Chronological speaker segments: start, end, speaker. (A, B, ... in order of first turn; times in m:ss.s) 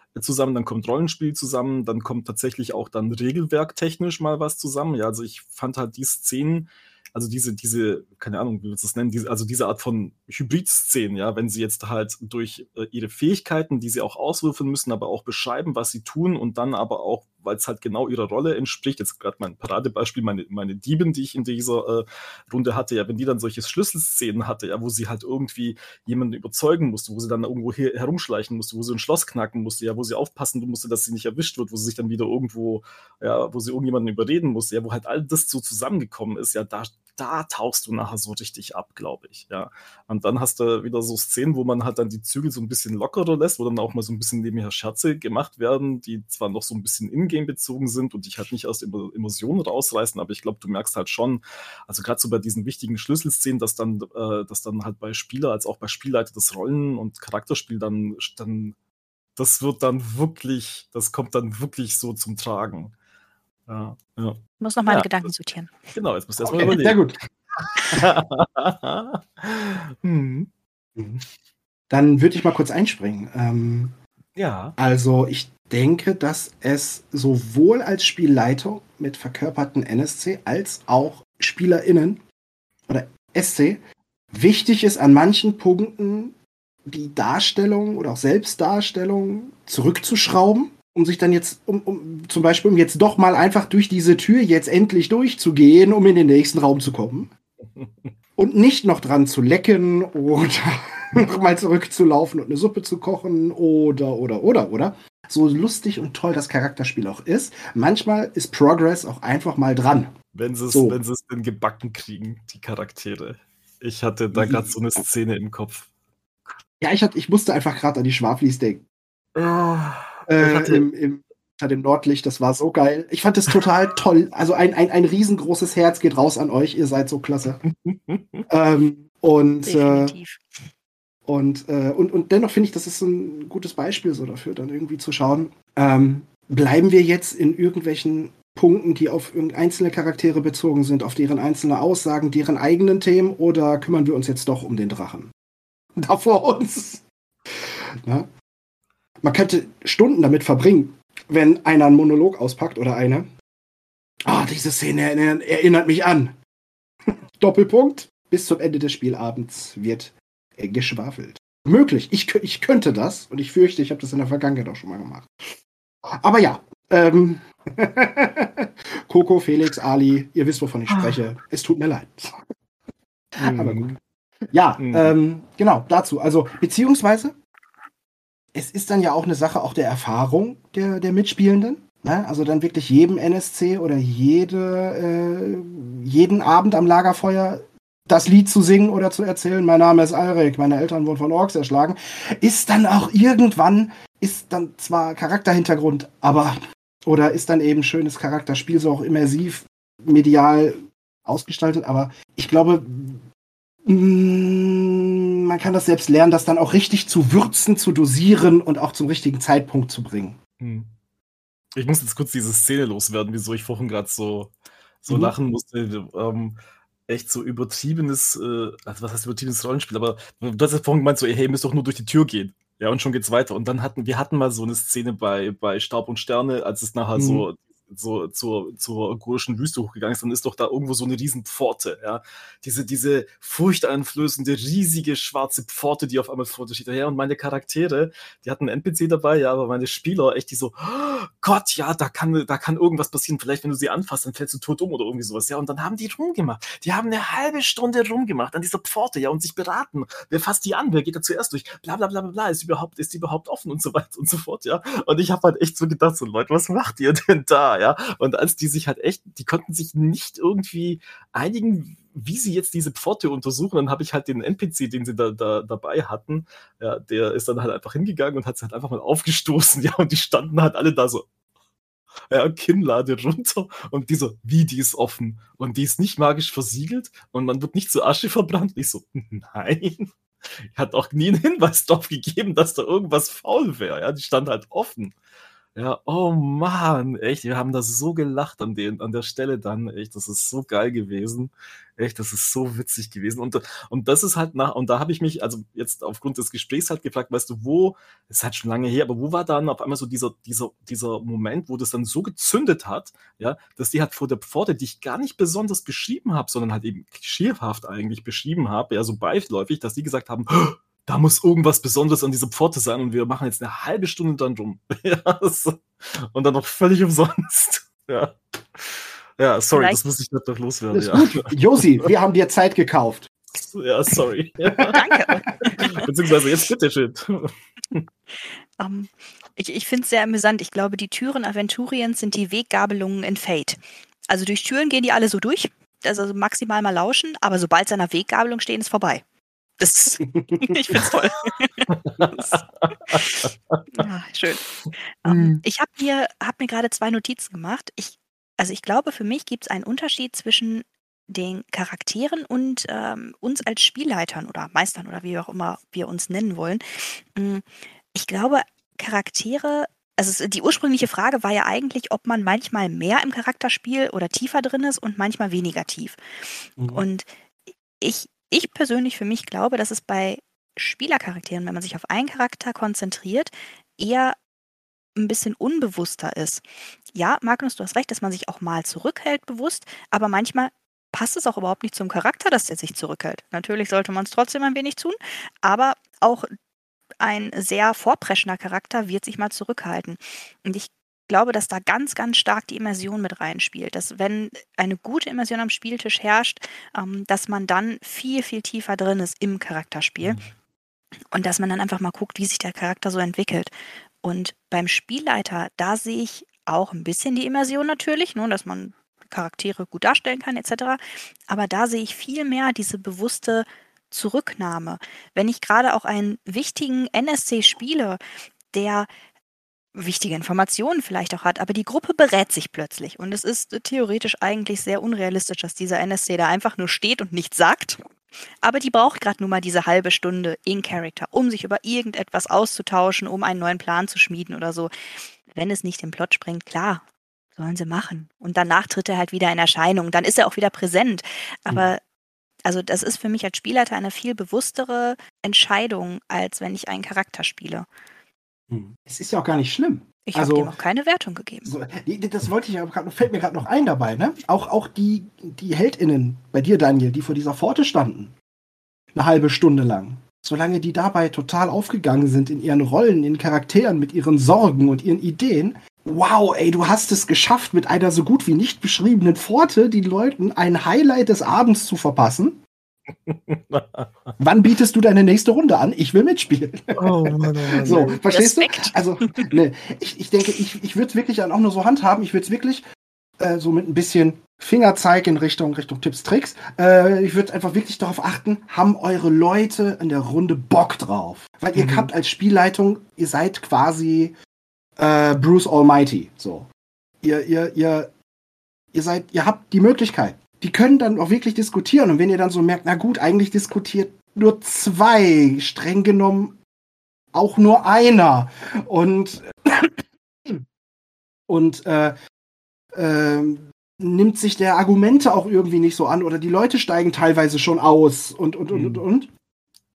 0:00.1-0:58.7 A
0:59.4-1:02.9 A
1:03.7-1:05.2 A
1:04.6-1:05.8 B
1:05.9-1:07.0 A
1:06.4-1:07.2 C
1:07.6-1:10.5 A
1:11.0-1:11.2 C
1:11.9-1:14.0 C
1:14.4-1:14.8 A
1:14.8-1:22.2 C
1:22.9-1:23.8 C
1:24.3-1:37.3 C
1:37.6-1:38.1 A
1:38.4-1:50.2 C
1:50.3-1:55.9 A
1:50.7-1:51.0 C
1:54.3-1:54.7 C
1:56.8-1:58.8 C
1:59.3-2:00.8 A
2:00.3-2:07.6 C
2:07.6-2:08.4 A
2:08.5-2:10.2 C
2:09.6-2:10.4 B
2:11.3-2:25.3 C
2:26.0-2:27.0 C
2:29.2-2:33.3 C
2:34.2-2:36.4 C
2:37.4-2:45.3 C
2:46.2-2:52.3 C
2:50.9-2:51.2 A
2:53.4-2:54.0 C
2:53.4-2:53.9 A
2:54.5-2:57.4 C
2:54.8-2:55.1 A
2:58.5-3:23.2 C
3:23.8-3:30.4 C
3:30.6-3:30.9 A
3:31.7-4:31.2 A
3:35.1-3:35.4 C
3:47.2-3:47.4 C
4:32.3-4:40.1 A
4:40.6-4:45.1 A
4:45.7-5:22.1 A
5:19.7-5:20.0 B
5:20.9-5:23.3 C
5:23.5-5:25.0 A
5:24.9-5:26.0 B
5:25.8-5:28.0 A
5:28.4-5:39.2 B
5:39.8-5:44.6 B
5:40.2-5:40.9 C
5:41.9-5:44.0 A
5:45.2-6:06.2 B
6:06.8-6:07.0 C
6:06.9-6:07.2 B
6:08.0-6:14.4 B
6:15.2-6:26.5 B
6:27.2-6:40.4 B
6:40.2-6:40.5 A
6:41.3-6:43.7 B
6:44.2-6:58.2 B
6:58.7-6:59.1 B
6:59.9-7:08.0 B
7:08.6-7:14.9 B
7:15.5-7:17.0 B
7:17.6-7:22.0 B
7:22.6-7:27.9 B
7:28.7-7:30.7 C
7:30.2-7:31.7 B
7:31.6-7:38.3 C
7:39.1-7:52.6 C
7:53.2-7:54.3 A
7:54.4-8:02.8 C
7:57.0-7:58.1 A
7:57.8-7:59.5 B
8:03.4-8:14.3 C
8:11.7-8:12.1 A
8:15.0-8:16.7 C
8:17.2-8:18.1 C
8:18.9-8:26.6 C
8:27.3-8:29.9 C
8:31.5-8:32.1 C
8:32.9-8:39.3 C
8:38.7-8:39.0 A